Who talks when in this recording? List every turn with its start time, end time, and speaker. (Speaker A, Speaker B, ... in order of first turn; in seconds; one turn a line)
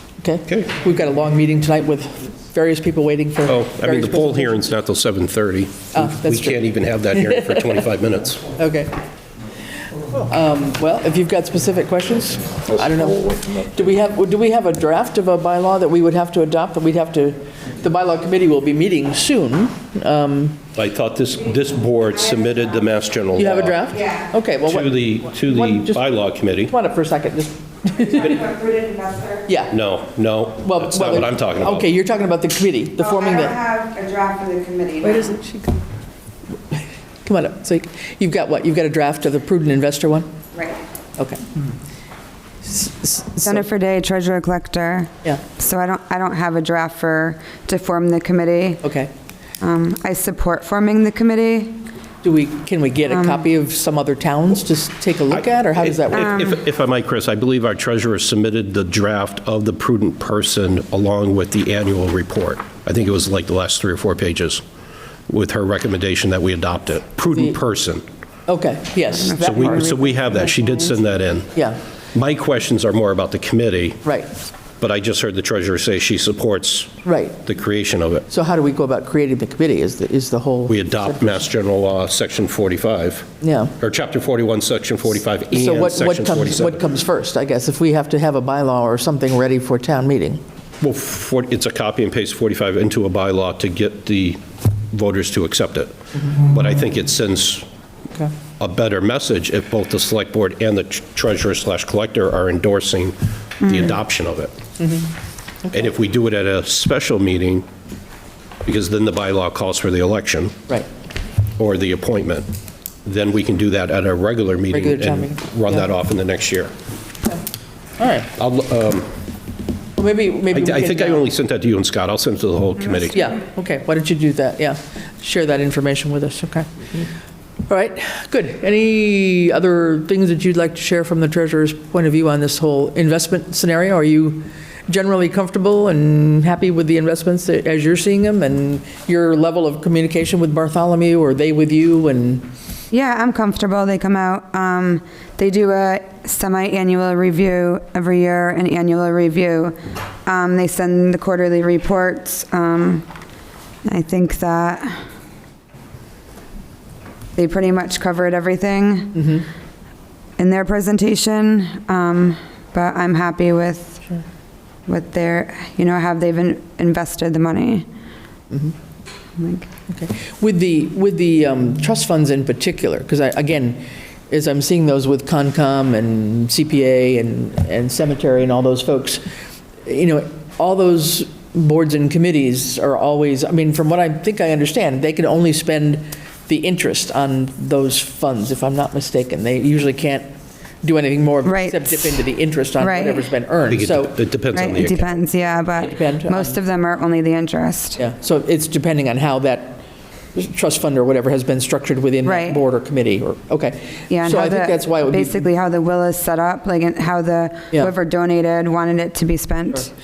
Speaker A: 0.2-4.6
Speaker B: 3.5-8.5
Speaker A: 5.9-7.8
Speaker A: 8.6-8.9
Speaker A: 10.1-20.6
Speaker B: 20.7-23.9
Speaker A: 23.3-26.0
Speaker B: 24.6-26.7
Speaker A: 26.7-28.5
Speaker C: 28.2-29.4
Speaker A: 29.5-29.7
Speaker B: 29.7-31.9
Speaker A: 30.6-33.6
Speaker C: 33.0-35.3
Speaker A: 35.0-35.8
Speaker A: 36.7-40.3
Speaker C: 40.5-40.8
Speaker A: 41.2-41.5
Speaker A: 42.6-43.6
Speaker C: 43.4-48.8
Speaker A: 48.8-49.1
Speaker C: 49.6-51.8
Speaker A: 52.2-56.5
Speaker C: 53.1-53.4
Speaker B: 55.4-64.6
Speaker B: 65.3-68.0
Speaker A: 67.3-67.6
Speaker A: 68.5-70.0
Speaker B: 69.3-71.5
Speaker C: 69.5-70.0
Speaker B: 72.1-74.0
Speaker A: 74.0-74.3
Speaker B: 74.8-78.2
Speaker A: 77.0-77.4
Speaker A: 78.3-81.4
Speaker B: 80.7-83.3
Speaker A: 83.4-83.7
Speaker B: 83.8-86.8
Speaker A: 85.5-90.4
Speaker B: 90.8-94.4
Speaker B: 94.9-97.7
Speaker B: 98.6-104.5
Speaker A: 104.8-105.0
Speaker B: 105.7-107.7
Speaker B: 108.6-110.5
Speaker B: 111.6-112.5
Speaker B: 113.0-116.7
Speaker A: 114.7-115.9
Speaker A: 118.0-118.3
Speaker B: 118.3-119.1
Speaker A: 120.0-121.2
Speaker B: 120.5-123.2
Speaker A: 123.1-127.0
Speaker A: 127.7-142.4
Speaker C: 142.9-153.1
Speaker C: 153.8-155.0
Speaker C: 157.3-159.2
Speaker A: 159.2-159.4
Speaker C: 160.4-164.0
Speaker C: 164.9-167.8
Speaker C: 169.4-169.7
Speaker A: 169.9-179.2
Speaker A: 179.8-190.3
Speaker A: 190.8-194.1
Speaker C: 191.4-192.1
Speaker C: 192.8-193.2
Speaker B: 193.7-195.2
Speaker C: 194.5-198.0
Speaker A: 195.7-196.6
Speaker A: 198.0-199.8
Speaker A: 200.3-205.5
Speaker C: 202.2-202.6
Speaker C: 204.1-209.9